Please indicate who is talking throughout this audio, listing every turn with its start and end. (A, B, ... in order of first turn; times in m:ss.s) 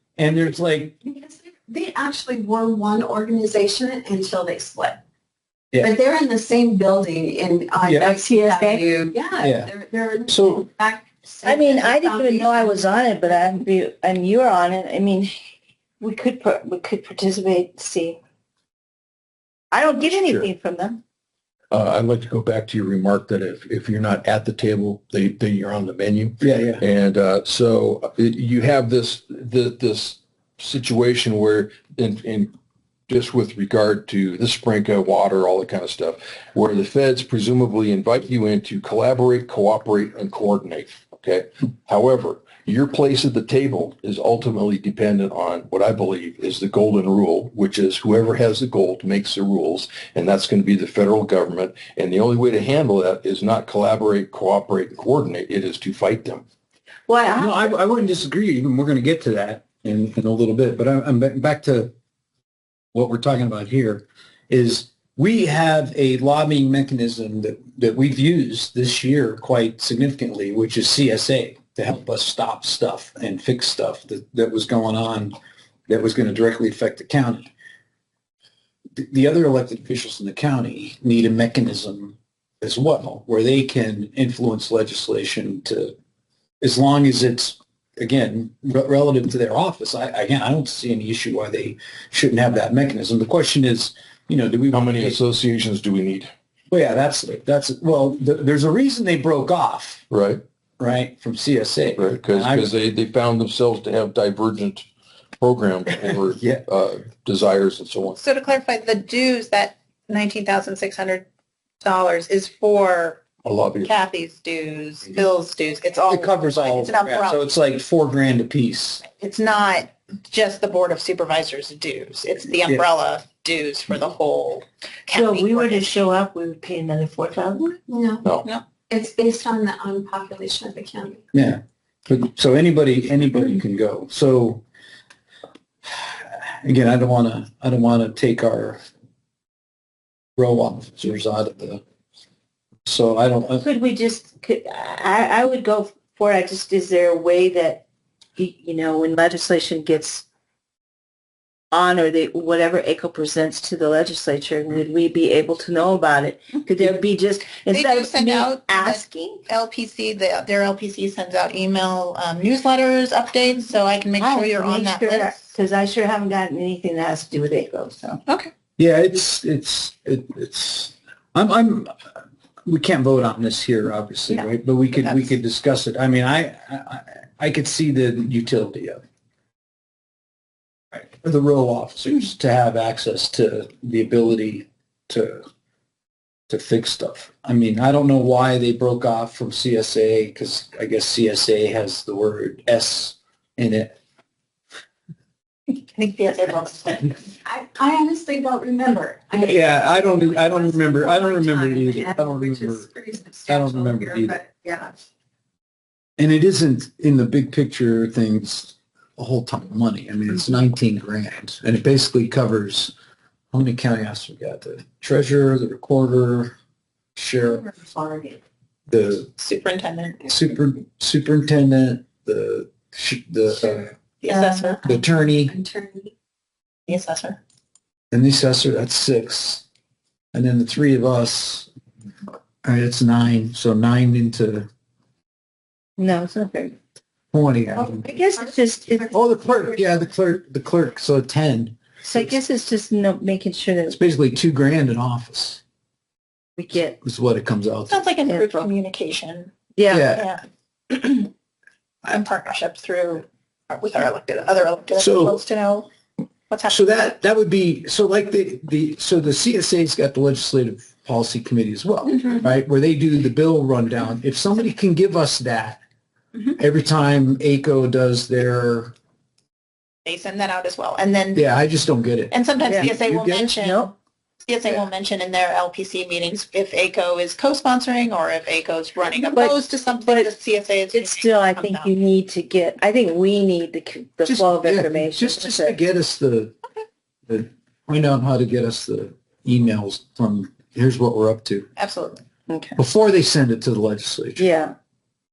0:00.2-0:01.0 A
0:01.0-0:05.0 B
0:05.8-0:12.8 B
0:07.8-0:08.2 A
0:08.5-0:08.8 C
0:09.4-0:09.7 A
0:10.3-0:10.6 A
0:11.4-0:15.3 C
0:16.0-0:18.2 C
0:19.7-0:21.0 C
0:21.7-0:32.5 D
0:26.4-0:26.8 A
0:33.1-0:56.4 D
0:57.1-0:57.7 C
0:57.4-1:01.9 A
1:02.9-1:15.3 A
1:15.9-1:17.5 A
1:19.0-1:25.9 A
1:26.6-1:35.2 A
1:34.7-1:36.3 D
1:36.7-1:40.0 A
1:40.1-1:40.4 D
1:40.8-1:42.7 A
1:42.0-1:44.8 D
1:45.4-1:48.2 D
1:46.4-1:46.6 A
1:48.2-1:51.2 E
1:51.8-1:53.2 E
1:53.4-1:53.9 D
1:53.8-1:57.4 E
1:56.1-1:59.0 A
1:59.0-2:05.9 E
2:05.1-2:07.8 C
2:07.9-2:11.2 B
2:08.4-2:08.8 E
2:11.3-2:14.6 A
2:15.9-2:18.8 A
2:20.4-2:21.8 A
2:22.8-2:23.6 A
2:23.6-2:27.8 C
2:28.4-2:30.2 C
2:31.7-2:39.4 C
2:37.7-2:45.4 E
2:44.2-2:48.2 C
2:48.3-2:48.5 E
2:48.8-2:51.9 A
2:52.6-2:59.0 A
2:55.0-2:55.4 E
3:00.9-3:05.4 A
3:06.5-3:14.0 A
3:15.7-3:17.1 E
3:17.4-3:24.9 B
3:19.4-3:22.9 A
3:23.5-3:24.4 A
3:26.2-3:32.9 A
3:33.5-3:36.6 A
3:37.2-3:37.7 A
3:38.9-3:39.3 A
3:39.4-3:40.2 E
3:40.3-3:43.9 A
3:44.2-3:44.8 E
3:44.3-3:46.1 B
3:44.8-3:45.5 A
3:46.9-3:47.4 E
3:48.1-3:49.6 A
3:50.3-3:51.7 A
3:52.6-3:54.7 A
3:56.0-3:56.8 C
3:57.3-3:58.0 A
3:57.9-3:59.1 C
3:59.1-4:02.4 A
4:02.0-4:04.0 C
4:03.9-4:05.6 A
4:06.6-4:07.0 C
4:07.0-4:08.0 A
4:07.9-4:09.5 E
4:08.2-4:08.7 C
4:09.8-4:10.1 C
4:09.9-4:10.3 A
4:10.1-4:11.3 E
4:12.0-4:15.9 E
4:15.0-4:15.4 A
4:16.5-4:16.8 E
4:16.7-4:25.8 A
4:26.6-4:28.9 A
4:30.0-4:31.5 E
4:31.3-4:33.5 A
4:32.3-4:41.9 E
4:32.6-4:32.9 C
4:33.4-4:33.9 C
4:39.3-4:40.3 C
4:40.9-4:45.8 C
4:44.2-4:46.5 A
4:47.3-4:51.7 A
4:51.8-4:52.2 E
4:52.8-4:54.4 A
4:54.4-4:54.8 C